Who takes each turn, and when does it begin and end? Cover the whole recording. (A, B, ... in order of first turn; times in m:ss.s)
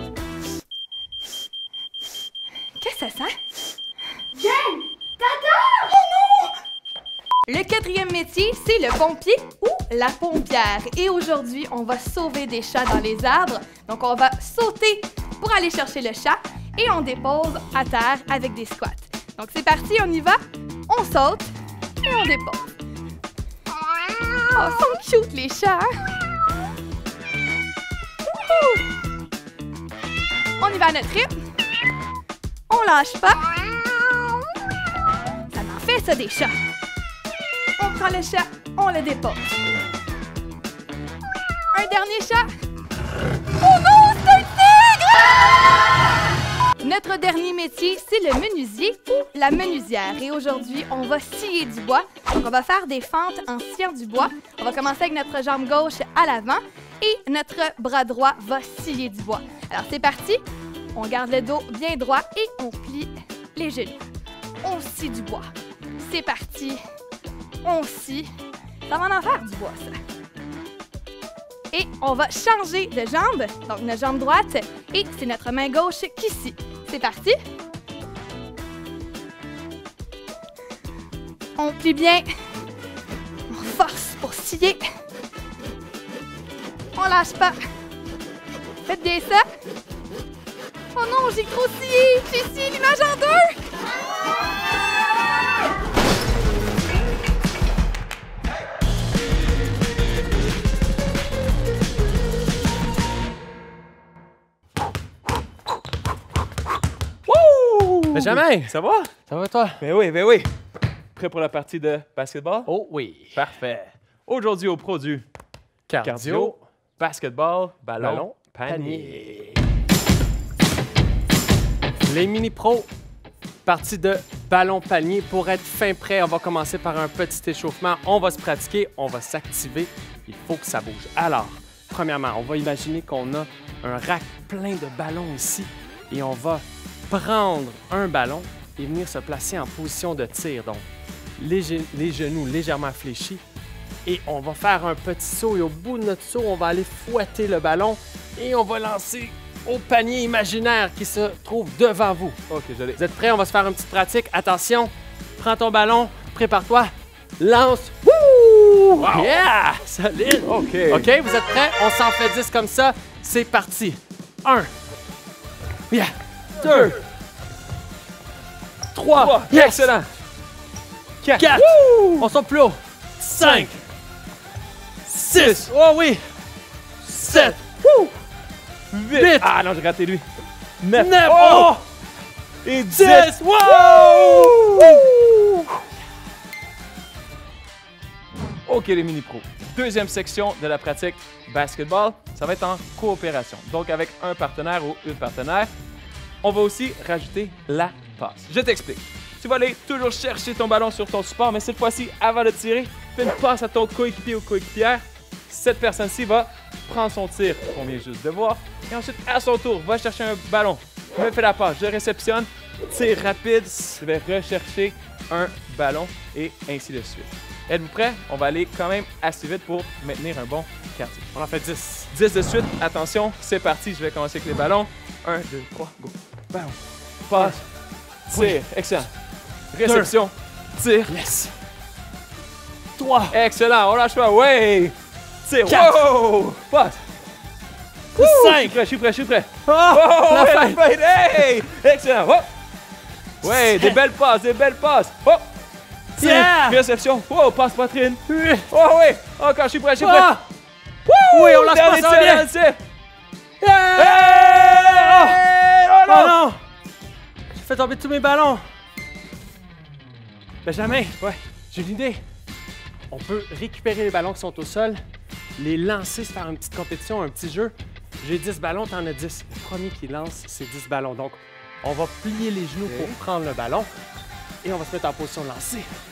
0:02.8-0:03.4 A
0:04.4-0:06.5 A
0:07.5-0:22.8 A
0:24.1-0:25.9 A
0:28.3-0:28.9 A
0:30.6-0:31.4 A
0:32.7-0:34.3 A
0:35.5-0:36.5 A
0:37.8-0:39.5 A
0:41.7-0:42.5 A
0:43.6-0:45.6 A
0:46.8-1:00.4 A
1:00.9-1:04.0 A
1:04.6-1:06.8 A
1:07.6-1:08.3 A
1:08.9-1:10.0 A
1:11.7-1:17.4 A
1:21.6-1:22.2 A
1:23.5-1:24.8 A
1:27.0-1:27.6 A
1:28.9-1:29.4 A
1:30.9-1:33.6 A
1:47.3-1:48.7 B
1:48.1-1:49.8 C
1:49.8-1:50.5 B
1:51.2-1:52.7 B
1:52.6-1:53.5 C
1:53.3-1:55.3 B
1:55.9-1:56.6 C
1:56.0-1:59.2 B
1:58.0-1:59.6 C
2:02.0-2:02.9 C
2:03.7-2:20.9 C
2:21.4-2:23.4 C
2:24.1-2:32.4 C
2:32.5-2:33.0 B
2:33.0-2:44.7 C
2:39.0-2:39.4 B
2:40.4-2:41.1 B
2:45.9-2:47.0 C
2:46.6-2:46.9 B
2:48.9-2:49.9 C
2:49.1-2:50.1 B
2:51.2-2:52.3 B
2:51.3-2:53.8 C
2:53.4-2:53.7 B
2:55.1-2:55.7 B
2:55.1-2:56.3 C
2:57.0-2:58.1 C
2:57.2-2:57.6 B
2:58.9-3:00.2 B
2:59.1-2:59.5 C
3:00.8-3:01.8 B
3:00.9-3:01.8 C
3:02.6-3:05.1 B
3:02.9-3:05.7 C
3:08.7-3:15.7 B
3:16.4-3:41.3 B
3:41.3-3:42.1 C
3:42.1-3:46.8 B
3:47.3-3:47.6 B
3:47.3-3:47.6 C
3:48.3-3:49.1 B
3:48.3-3:48.6 C
3:49.7-3:51.2 B
3:49.8-3:50.1 C
3:51.1-3:51.5 C
3:53.0-3:53.4 C
3:53.3-3:57.0 B
3:55.7-3:56.0 C
3:58.2-3:58.8 C
3:58.2-4:02.5 B
3:59.6-4:00.8 C
4:03.4-4:05.4 B
4:03.4-4:04.0 C
4:06.2-4:10.3 B
4:06.2-4:06.8 C
4:08.3-4:08.7 C
4:10.0-4:10.4 C
4:11.1-4:12.8 B
4:11.3-4:12.5 C
4:13.6-4:15.4 C
4:13.9-4:16.4 B
4:16.1-4:16.6 C
4:17.5-4:18.6 C
4:20.6-4:22.2 C
4:23.1-4:25.0 C
4:25.6-4:33.9 C
4:32.9-4:33.2 B
4:34.6-4:35.9 C